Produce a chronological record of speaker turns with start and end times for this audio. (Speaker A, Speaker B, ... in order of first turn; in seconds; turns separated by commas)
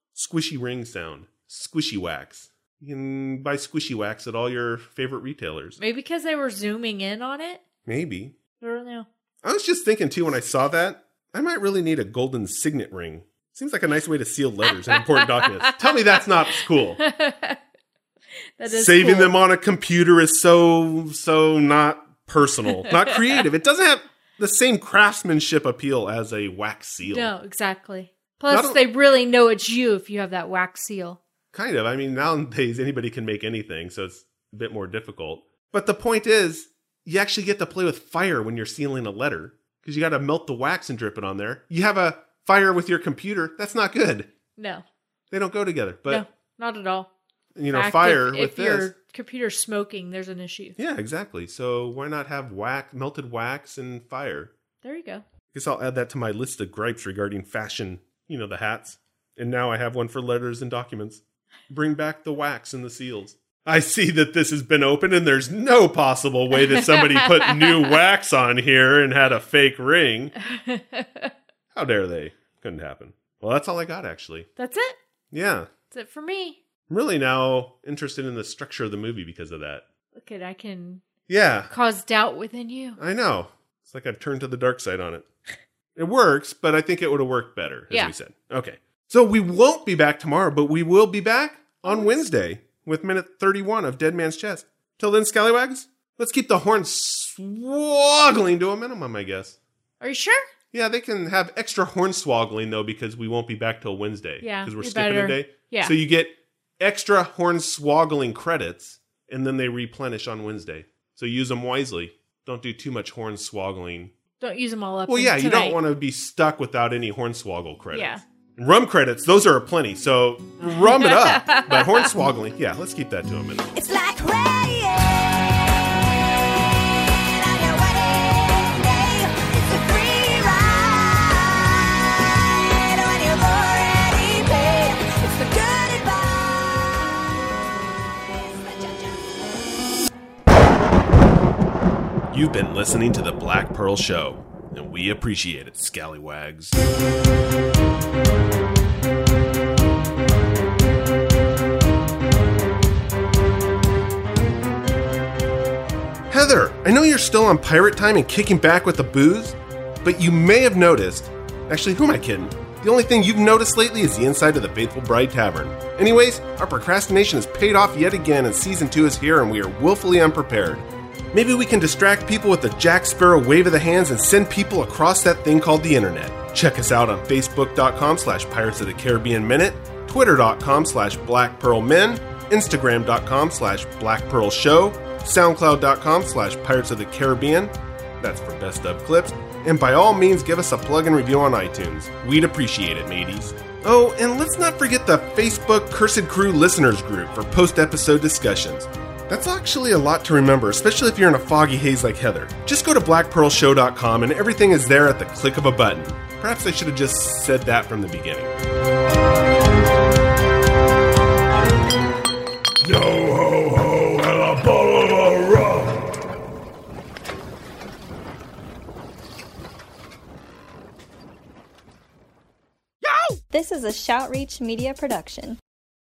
Speaker A: 0.1-5.8, Speaker B: 5.8-7.6, Speaker A: 7.9-8.3, Speaker B: 8.6-9.1, Speaker A: 9.4-17.0, Speaker B: 17.0-17.6, Speaker B: 18.6-19.4, Speaker A: 18.6-27.3, Speaker B: 27.1-31.2, Speaker A: 28.5-28.8, Speaker A: 31.5-44.3, Speaker B: 44.6-44.8, Speaker A: 45.3-46.2, Speaker B: 46.1-47.1, Speaker A: 47.5-48.9, Speaker B: 47.7-50.8, Speaker A: 50.8-54.5, Speaker B: 54.8-55.2, Speaker A: 55.5-70.3, Speaker B: 66.7-67.8, Speaker B: 70.5-71.3, Speaker A: 71.7-74.5, Speaker B: 74.6-75.0, Speaker A: 75.3-75.7, Speaker B: 75.9-76.6, Speaker A: 76.9-79.8, Speaker B: 80.1-81.0, Speaker A: 81.3-81.7, Speaker B: 81.7-83.0, Speaker A: 83.0-85.3, Speaker A: 86.0-99.6, Speaker B: 91.9-92.2, Speaker B: 100.0-100.4, Speaker A: 100.7-114.1, Speaker B: 104.4-106.0, Speaker B: 114.4-115.8, Speaker A: 115.1-123.7, Speaker B: 117.9-118.2, Speaker B: 120.7-122.1, Speaker C: 123.7-137.2, Speaker C: 138.1-139.7, Speaker A: 142.3-146.8, Speaker A: 156.3-208.6, Speaker D: 212.8-216.1, Speaker C: 223.5-225.6